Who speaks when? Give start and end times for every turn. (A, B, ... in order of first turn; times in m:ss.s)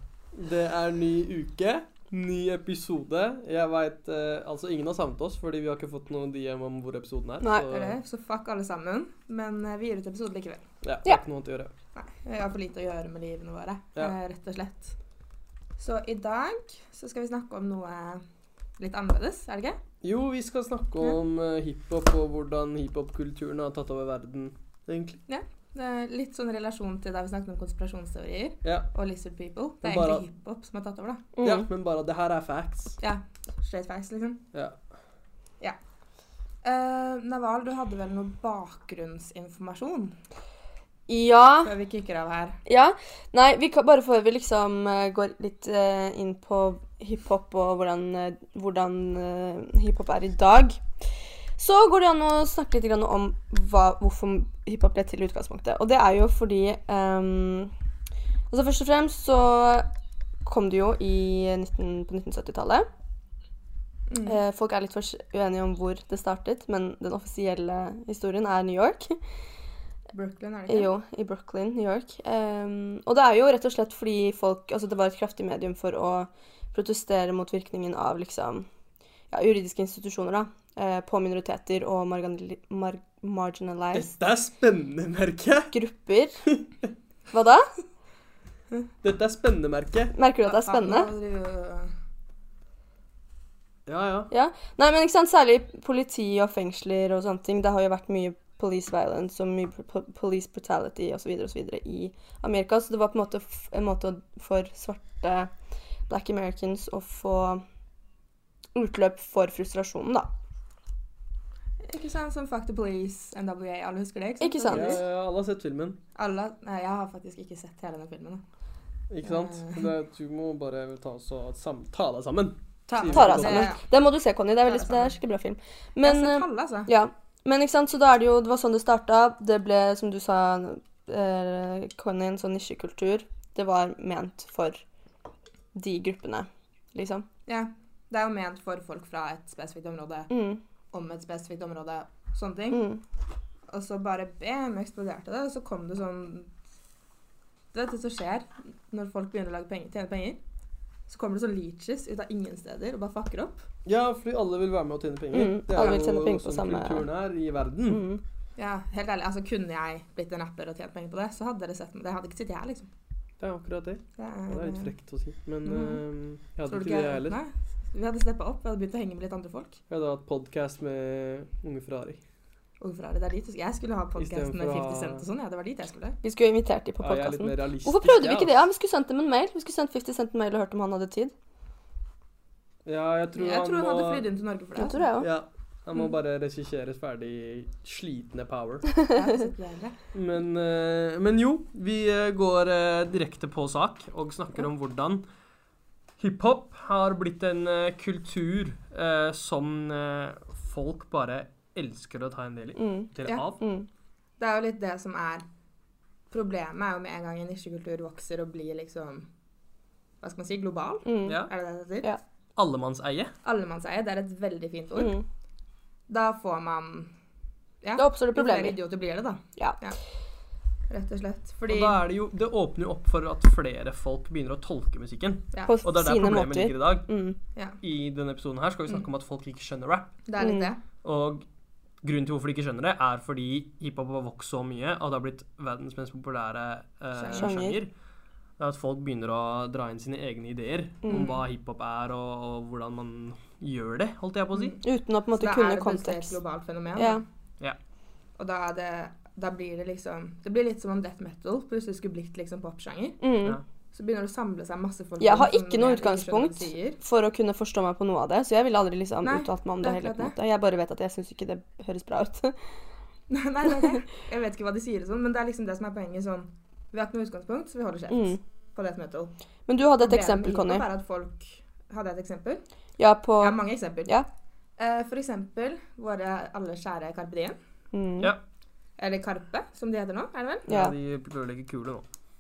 0:00.3-0:08.0 A
0:07.4-0:07.7 B
0:07.6-0:10.6 C
0:10.8-0:11.7 A
0:12.0-0:15.0 C
0:15.8-0:18.2 C
0:18.8-0:19.8 C
0:20.0-0:25.2 A
0:25.3-0:31.3 C
0:29.8-0:30.2 A
0:31.4-0:31.6 B
0:31.4-0:33.0 A
0:33.0-0:34.4 C
0:36.6-0:40.2 C
0:41.1-0:41.7 B
0:41.6-0:42.6 C
0:42.7-0:50.8 B
0:51.6-0:57.7 B
0:58.5-0:59.9 B
1:00.4-1:02.9 B
1:04.1-1:04.4 C
1:04.3-1:09.2 B
1:10.1-1:10.9 C
1:10.7-1:18.7 B
1:19.3-1:24.1 B
1:23.9-1:25.7 A
1:25.7-1:26.4 B
1:27.3-1:27.7 B
1:29.0-1:30.1 A
1:30.1-1:31.1 B
1:30.4-1:31.9 C
1:33.9-1:34.3 A
1:34.3-1:45.5 B
1:46.1-1:47.6 B
1:48.7-1:50.3 B
1:51.8-1:55.0 C
1:54.4-1:55.0 B
1:54.7-1:56.0 A
1:56.2-1:58.4 C
1:59.1-2:03.7 A
1:59.2-1:59.9 C
2:02.9-2:03.8 C
2:03.1-2:14.8 B
2:04.6-2:05.2 C
2:06.0-2:06.9 C
2:15.7-2:17.2 B
2:17.5-2:20.3 C
2:20.3-2:20.6 B
2:20.9-2:22.8 C
2:22.7-2:23.0 B
2:23.7-2:26.5 C
2:27.7-2:30.4 C
2:31.1-2:33.7 C
2:33.8-2:38.1 A
2:35.3-2:37.1 B
2:37.9-2:38.2 B
2:38.6-2:42.9 C
2:43.4-2:47.4 A
2:44.2-2:44.9 C
2:45.6-2:46.0 C
2:46.7-2:49.8 C
2:49.9-2:52.2 A
2:52.8-2:56.2 C
2:54.2-2:55.2 A
2:56.2-3:01.3 B
2:57.0-2:58.5 A
3:02.8-3:04.2 A
3:03.3-3:05.2 C
3:04.8-3:05.3 B
3:05.2-3:08.9 A
3:09.1-3:10.0 C
3:10.1-3:15.2 A
3:16.2-3:23.6 A
3:22.8-3:23.9 B
3:24.4-3:25.4 C
3:26.3-3:29.3 C
3:30.2-3:32.1 C
3:31.0-3:31.4 B
3:32.6-3:33.3 A
3:33.4-3:35.2 C
3:35.0-3:35.2 B
3:36.1-3:37.1 C
3:37.8-3:40.0 C
3:38.0-3:38.8 B
3:40.9-3:42.0 C
3:41.7-3:47.1 A
3:45.7-3:47.4 B
3:47.8-3:50.2 A
3:50.2-3:50.8 C
3:50.4-3:50.7 B
3:51.0-3:51.4 A
3:52.0-3:57.9 A
3:57.1-3:57.5 C
3:57.3-3:57.8 B
3:58.6-4:04.8 A
4:01.0-4:01.3 B
4:01.1-4:01.4 C
4:04.5-4:04.8 C
4:04.8-4:06.4 B
4:05.4-4:07.2 C
4:07.0-4:07.2 B
4:08.4-4:13.2 C
4:13.2-4:13.6 B
4:13.9-4:17.0 C
4:15.2-4:22.6 B
4:19.2-4:20.3 C
4:23.3-4:29.3 C
4:28.1-4:28.4 B
4:29.7-4:30.8 B
4:30.0-4:32.6 C
4:33.0-4:34.3 B
4:33.4-4:34.2 C
4:34.8-4:37.6 C
4:37.9-4:38.3 B
4:39.0-4:40.7 C
4:40.7-4:40.9 B
4:40.7-4:42.0 A